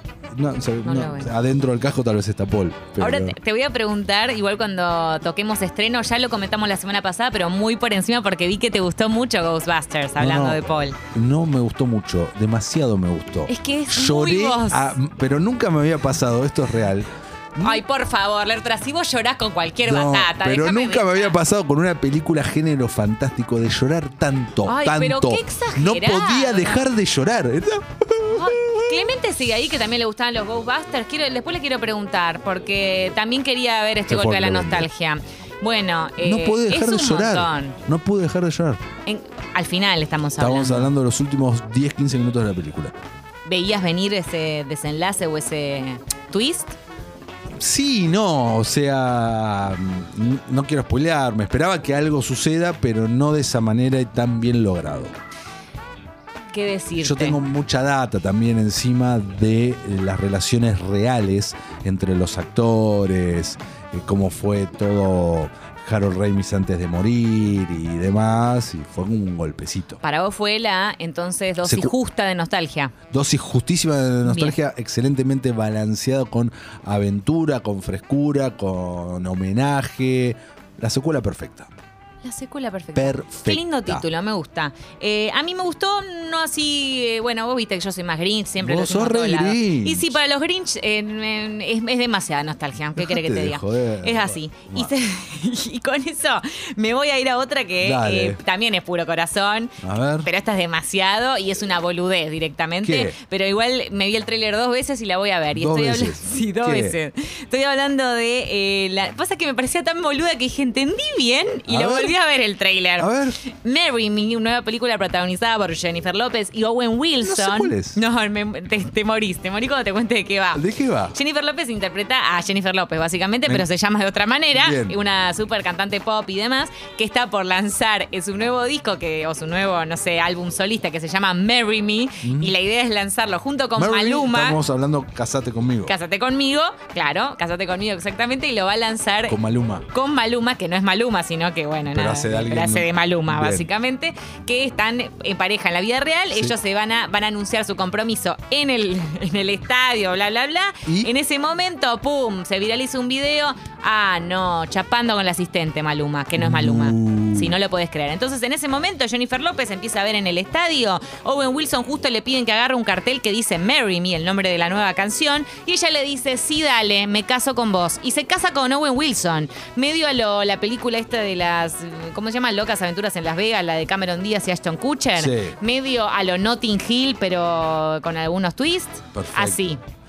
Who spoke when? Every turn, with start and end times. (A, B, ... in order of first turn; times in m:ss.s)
0:00.3-0:03.4 A
0:00.8-0:01.3 B
0:03.0-0:11.0 B
0:10.2-0:17.8 A
0:13.5-0:15.0 B
0:17.6-0:21.3 B
0:19.8-0:29.0 A
0:24.6-0:26.9 B
0:28.2-0:37.8 B
0:34.1-0:34.9 A
0:36.2-0:38.8 A
0:39.0-0:40.9 B
0:40.4-0:42.9 A
0:43.4-0:46.8 B
0:47.6-0:55.1 A
0:56.5-0:57.4 B
0:57.0-1:10.0 A
1:10.0-1:13.0 B
1:11.6-1:12.0 A
1:13.1-1:21.7 A
1:14.2-1:14.6 B
1:22.2-2:14.6 B
1:22.9-1:24.0 A
1:28.6-1:30.2 A
1:33.0-1:35.0 A
1:37.8-1:38.4 A
1:39.8-1:40.3 A
1:42.8-1:43.2 A
1:45.5-1:47.0 A
1:51.7-1:52.2 A
1:53.0-1:53.4 A
1:57.2-1:58.0 A
2:00.5-2:01.1 A
2:04.5-2:05.0 A
2:12.2-2:12.5 A
2:13.8-2:16.0 A
2:15.8-2:19.4 B
2:19.3-2:19.8 A
2:19.9-2:59.8 B
2:21.9-2:23.7 A
2:30.8-2:31.1 A
2:36.4-2:37.6 A
2:55.2-2:55.6 A
2:59.1-2:59.6 A